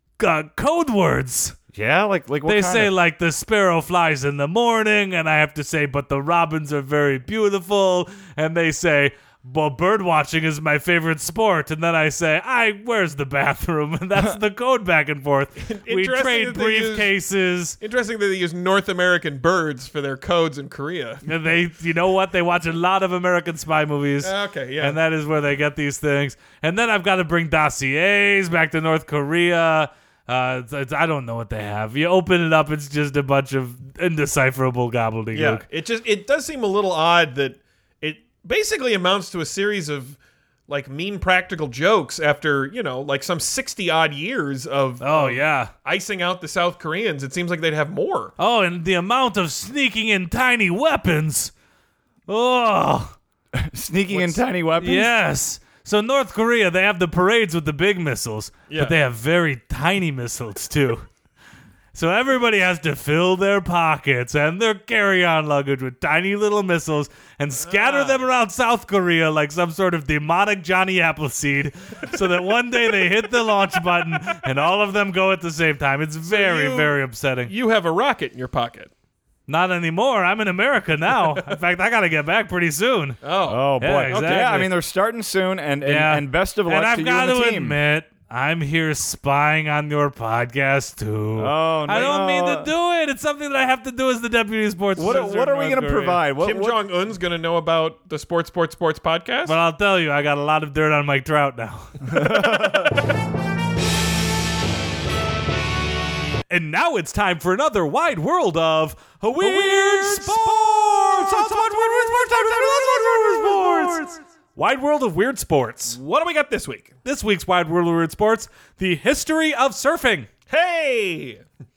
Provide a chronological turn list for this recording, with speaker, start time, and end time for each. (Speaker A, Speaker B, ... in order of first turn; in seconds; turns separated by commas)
Speaker A: 0.2-1.6, Speaker B: 1.7-2.9, Speaker A: 2.5-17.8, Speaker C: 15.6-17.1, Speaker C: 17.8-21.2, Speaker A: 21.2-35.6, Speaker C: 24.2-25.0, Speaker C: 35.3-48.3, Speaker A: 45.0-45.7, Speaker A: 48.4-51.5, Speaker A: 52.3-53.1, Speaker B: 53.5-55.1, Speaker C: 54.1-54.4, Speaker A: 54.8-61.0, Speaker C: 58.7-58.9, Speaker A: 61.9-77.5, Speaker C: 67.6-68.2, Speaker C: 76.2-78.9, Speaker A: 79.5-83.2, Speaker C: 83.2-84.7, Speaker B: 83.5-87.8, Speaker A: 83.8-84.7, Speaker A: 85.8-96.2, Speaker B: 91.3-92.7, Speaker C: 91.9-92.2, Speaker B: 95.0-96.8, Speaker C: 96.4-99.6, Speaker A: 99.4-102.8, Speaker B: 102.1-103.0, Speaker A: 106.5-116.0, Speaker C: 109.4-114.0, Speaker C: 115.9-116.9, Speaker A: 117.0-120.3, Speaker C: 120.5-121.4